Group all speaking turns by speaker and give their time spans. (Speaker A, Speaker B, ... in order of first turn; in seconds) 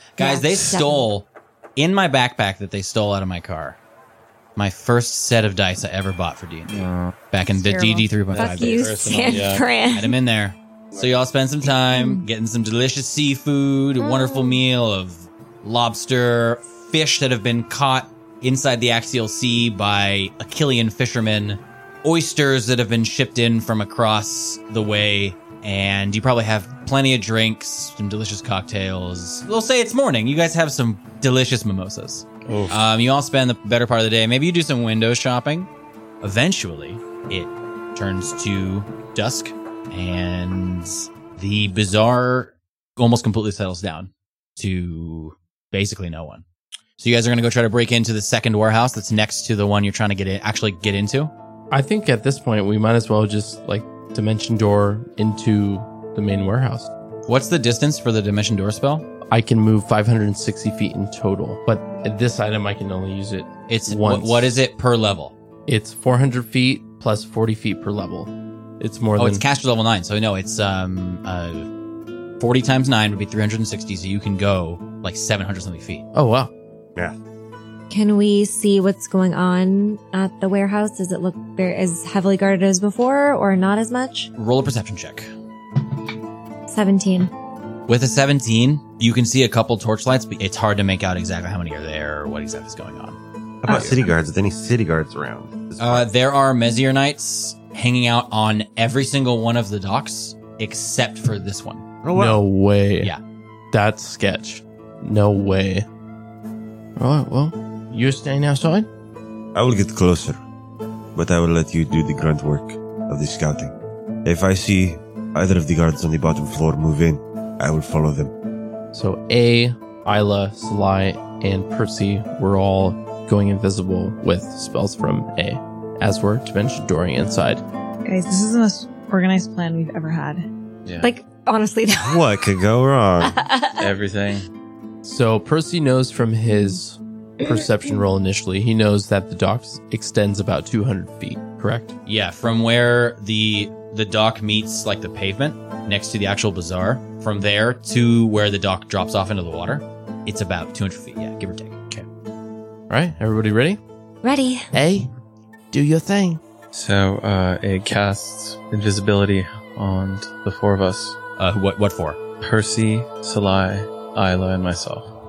Speaker A: 0.2-3.8, 4.6-35.7, 36.2-46.4, 47.0-51.3, 57.3-59.1, 63.7-65.3, 69.2-71.7, 72.4-76.0, 84.4-85.3, 87.9-94.1, 95.8-101.8, 142.1-152.0, 161.4-162.2
Speaker B: 0.2-1.1, 8.3-10.2, 11.9-12.2, 14.0-14.6, 77.9-84.3, 86.7-87.3, 131.0-132.3, 133.2-133.9, 154.2-154.7
Speaker C: 6.7-7.2, 8.3-9.7, 32.5-32.8, 133.8-134.5, 156.7-161.2, 162.4-165.1
Speaker D: 7.5-8.1, 128.1-130.4
Speaker E: 51.7-56.9, 59.3-64.6, 65.7-69.4, 76.1-76.5, 102.1-103.1, 103.7-105.9, 107.0-108.9, 118.9-127.6, 135.0-141.9, 152.9-153.8, 154.7-155.1, 155.7-156.4
Speaker F: 93.6-96.1, 102.0-102.4, 109.5-110.4, 111.2-113.7, 114.2-118.3, 132.0-133.4